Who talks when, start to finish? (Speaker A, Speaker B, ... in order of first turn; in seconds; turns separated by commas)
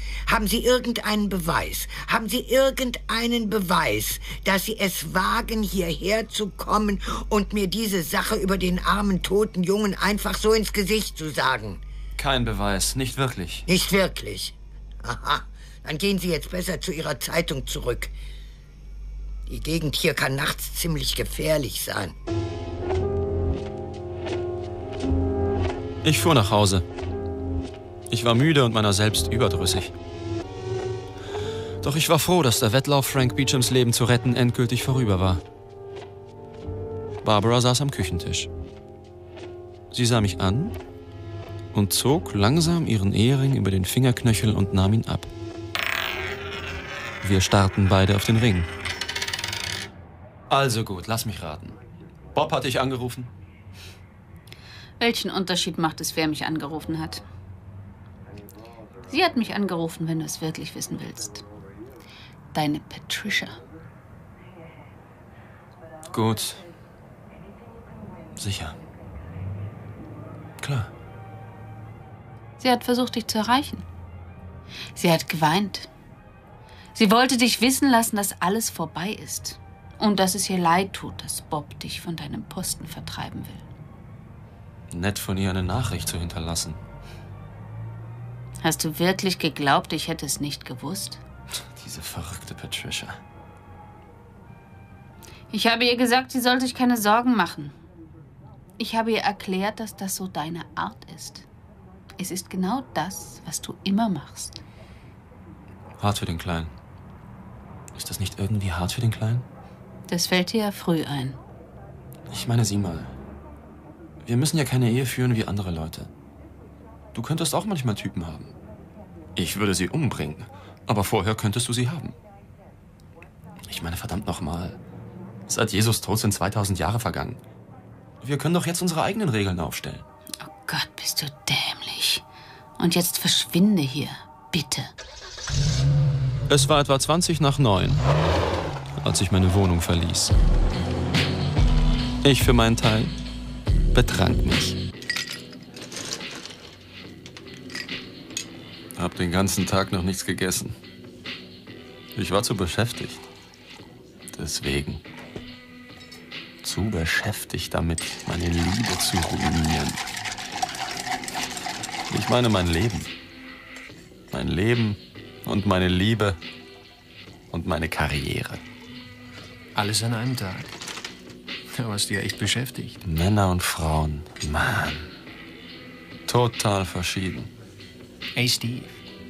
Speaker A: 0.2-11.8, Speaker B: 12.2-13.7, Speaker A: 13.7-18.1, Speaker A: 19.5-22.1, Speaker B: 26.0-26.8, Speaker B: 28.1-29.9, Speaker B: 31.8-35.4, Speaker B: 37.2-38.5, Speaker B: 39.9-40.8, Speaker B: 41.7-45.3, Speaker B: 47.2-48.7, Speaker B: 50.5-51.8, Speaker B: 52.3-53.3, Speaker C: 55.0-57.2, Speaker C: 59.1-61.4, Speaker C: 62.5-63.6, Speaker B: 66.1-66.6, Speaker B: 68.4-68.8, Speaker B: 70.6-70.9, Speaker C: 72.6-73.8, Speaker C: 75.0-75.9, Speaker C: 76.9-83.6, Speaker B: 84.9-86.8, Speaker C: 88.6-91.2, Speaker B: 91.7-93.2, Speaker C: 95.5-97.7, Speaker C: 98.8-101.5, Speaker C: 102.2-104.6, Speaker B: 106.0-106.7, Speaker B: 107.9-109.5, Speaker C: 110.1-111.4, Speaker B: 112.3-113.1, Speaker B: 114.2-116.1, Speaker B: 117.1-118.5, Speaker B: 119.3-122.1, Speaker B: 123.6-124.8, Speaker B: 125.5-127.4, Speaker B: 128.2-130.0, Speaker C: 130.4-132.2, Speaker C: 132.8-134.9, Speaker B: 136.5-138.1, Speaker B: 139.0-140.3, Speaker B: 142.2-143.1, Speaker B: 143.9-144.8, Speaker B: 149.0-150.8, Speaker B: 152.2-153.2, Speaker B: 154.3-155.0, Speaker B: 156.6-160.0, Speaker B: 162.1-163.1, Speaker B: 164.3-166.4, Speaker B: 167.5-168.6, Speaker D: 169.7-170.7, Speaker D: 171.7-173.0, Speaker B: 173.0-175.1, Speaker B: 176.3-177.5, Speaker D: 178.3-178.9